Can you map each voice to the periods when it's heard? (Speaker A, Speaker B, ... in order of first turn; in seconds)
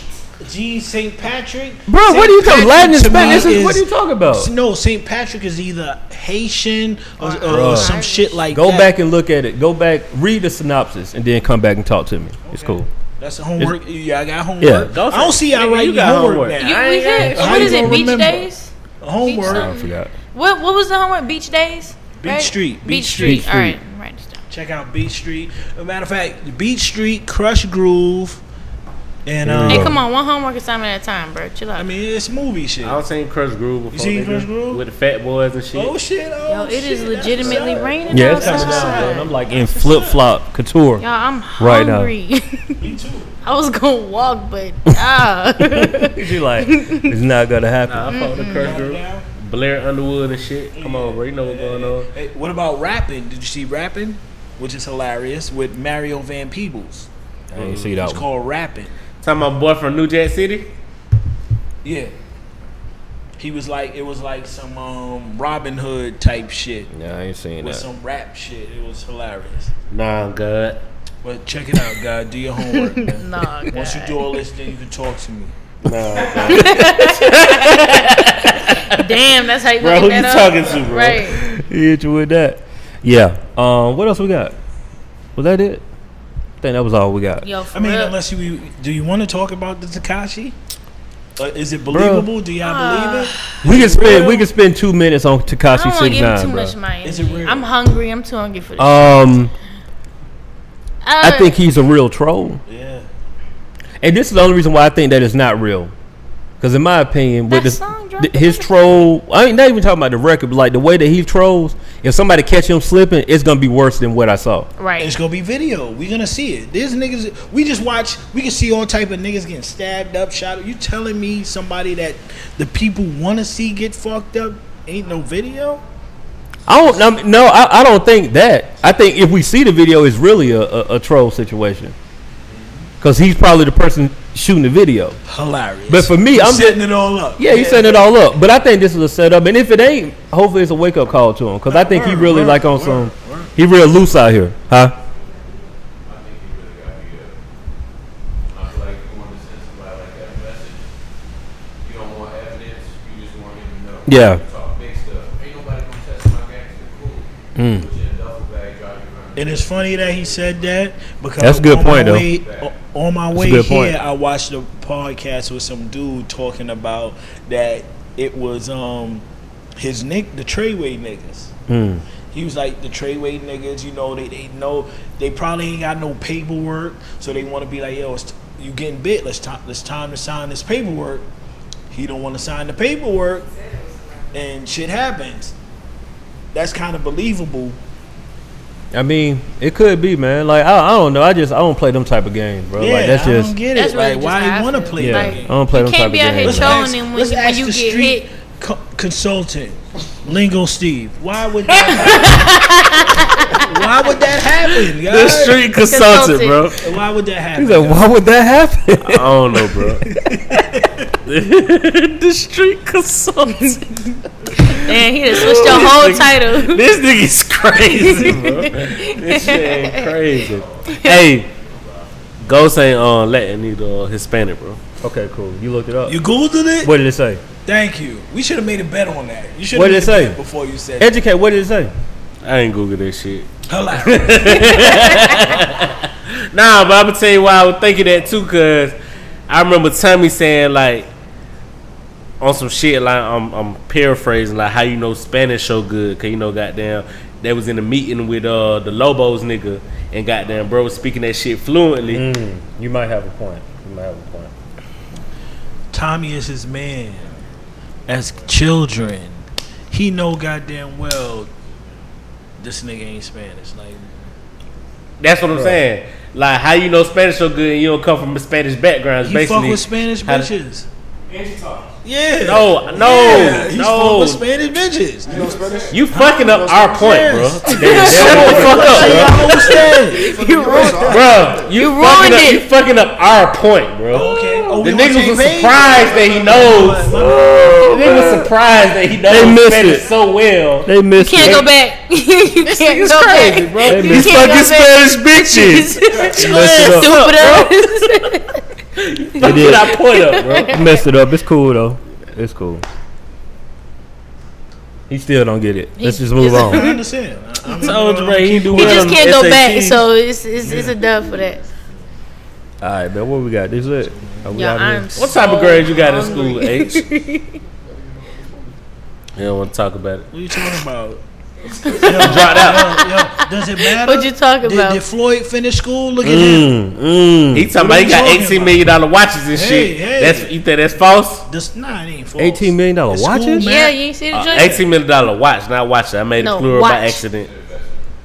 Speaker A: 0.4-8.9, 12.4-18.5, 19.0-19.7, 22.2-23.5, 24.5-28.4, 29.2-30.0, 31.8-33.0, 33.9-34.8, 35.7-40.2, 42.8-43.3, 48.5-49.2, 50.7-58.9, 61.8-62.1, 63.4-66.9, 67.6-69.7, 71.2-75.5, 87.7-90.5, 91.4-94.5, 97.0-97.7, 102.7-103.1, 115.0-125.8, 132.6-132.9, 135.3-138.0, 141.7-143.5, 159.3-169.2, 169.8-171.5, 172.3-181.3, 181.9-183.5, 184.3-185.5, 186.5-187.8, 192.8-195.6, 196.4-202.5, 203.5-205.6, 206.8-208.1, 210.0-211.0, 226.1-226.9, 227.6-231.1, 233.7-235.7, 255.9-257.4, 258.1-261.5, 262.6-264.2, 269.2-270.9, 272.0-275.5, 276.1-281.1, 284.1-287.9, 296.4-296.9, 306.5-309.2, 310.6-311.0, 314.2-314.5, 316.0-316.6, 320.3-321.2, 321.8-326.8, 327.7-328.9, 329.5-334.0
Speaker B: 1.9-4.5, 7.5-8.0, 8.5-12.9, 14.6-14.9, 19.4-20.1, 23.1-23.8, 29.4-30.0, 38.1-41.0, 41.6-42.1, 45.6-48.2, 57.5-58.2, 66.9-67.8, 81.3-84.5, 85.3-85.8, 86.6-87.5, 91.9-92.3, 93.6-96.7, 98.8-99.5, 101.2-102.6, 104.0-105.9, 106.6-114.7, 126.7-131.9, 133.0-135.2, 135.9-136.8, 137.3-144.9, 154.1-154.4, 157.6-157.9, 161.4-162.3, 163.3-164.0, 171.7-172.0, 188.9-193.5, 195.0-196.8, 207.6-209.3, 225.0-226.2, 226.8-227.4, 229.7-230.4, 231.0-231.9, 252.1-254.5, 265.5-265.8, 271.3-271.9, 277.8-279.4, 287.1-288.5, 289.3-290.0, 290.9-291.6, 293.8-294.6, 296.3-297.1, 299.4-299.9, 300.6-302.8, 305.1-306.9, 312.8-315.2, 326.2-327.7, 332.4-333.7
Speaker C: 7.2-8.4, 16.6-24.4, 29.7-31.9, 36.5-39.3, 41.0-42.9, 43.4-47.1, 48.1-48.8, 72.7-74.2, 76.4-78.0, 78.9-81.4, 87.4-88.1, 92.6-93.6, 95.7-99.2, 101.0-101.6, 107.5-109.0, 114.8-115.1, 193.7-198.2, 201.8-203.8, 205.8-206.7, 214.6-216.8, 217.9-220.2, 220.9-221.2, 273.1-273.5, 277.6-282.6, 284.2-284.6, 291.2-298.6, 299.3-301.0, 306.0-307.0, 308.7-311.6, 314.5-317.6, 321.8-325.0, 333.6-334.8, 336.4-337.2
Speaker D: 14.8-18.0, 32.8-35.9, 47.9-52.1, 59.2-60.7, 69.9-70.8, 75.8-79.1, 79.8-81.3, 205.1-206.9, 209.0-210.1, 211.2-213.8, 214.7-221.5, 222.4-224.8, 232.4-239.0, 239.5-241.1, 242.4-252.2, 265.2-270.5, 272.4-274.4, 275.9-279.3, 281.0-287.1, 287.8-291.7, 292.6-298.2, 299.0-300.8, 307.8-310.0, 315.1-317.0, 319.3-320.3, 322.0-322.9, 327.5-331.4, 334.3-337.5
Speaker E: 37.4-38.8, 275.2-277.2, 277.8-281.8, 317.8-318.8
Speaker F: 146.0-147.3, 148.5-150.9, 151.8-160.7, 162.3-162.8, 220.3-222.3, 271.4-271.9, 337.3-338.1